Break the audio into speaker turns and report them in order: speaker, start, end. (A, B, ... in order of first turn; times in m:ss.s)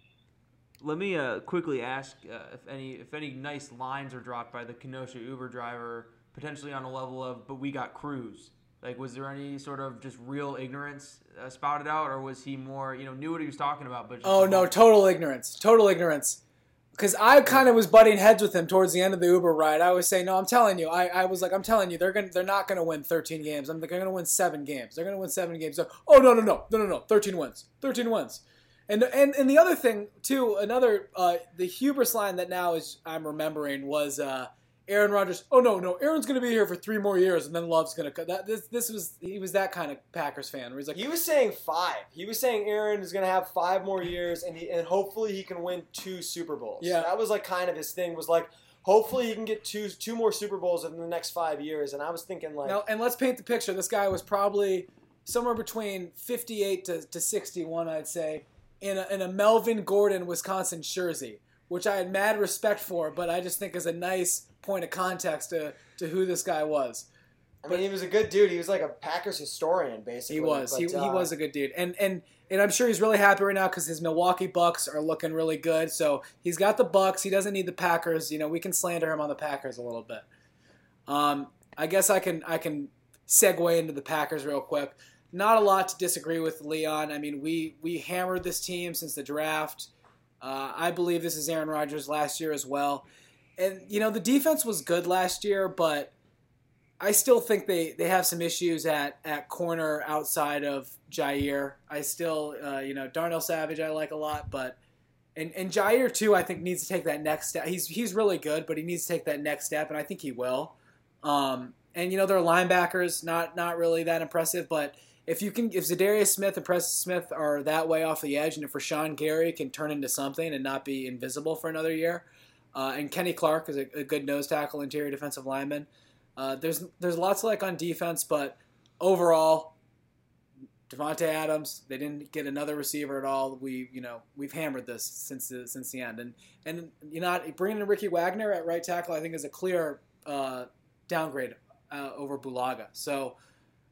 0:00.8-0:14.7 A
0:14.2-0:16.4 B
0:17.0-0:41.0 B
0:40.9-0:52.8 C
0:46.8-0:47.1 B
0:52.6-1:07.0 B
1:07.6-1:11.3 C
1:10.3-1:20.2 B
1:21.1-1:29.9 B
1:30.4-1:33.0 B
1:33.6-1:36.1 B
1:37.0-1:44.8 B
1:45.4-2:09.7 B
2:10.9-2:23.3 B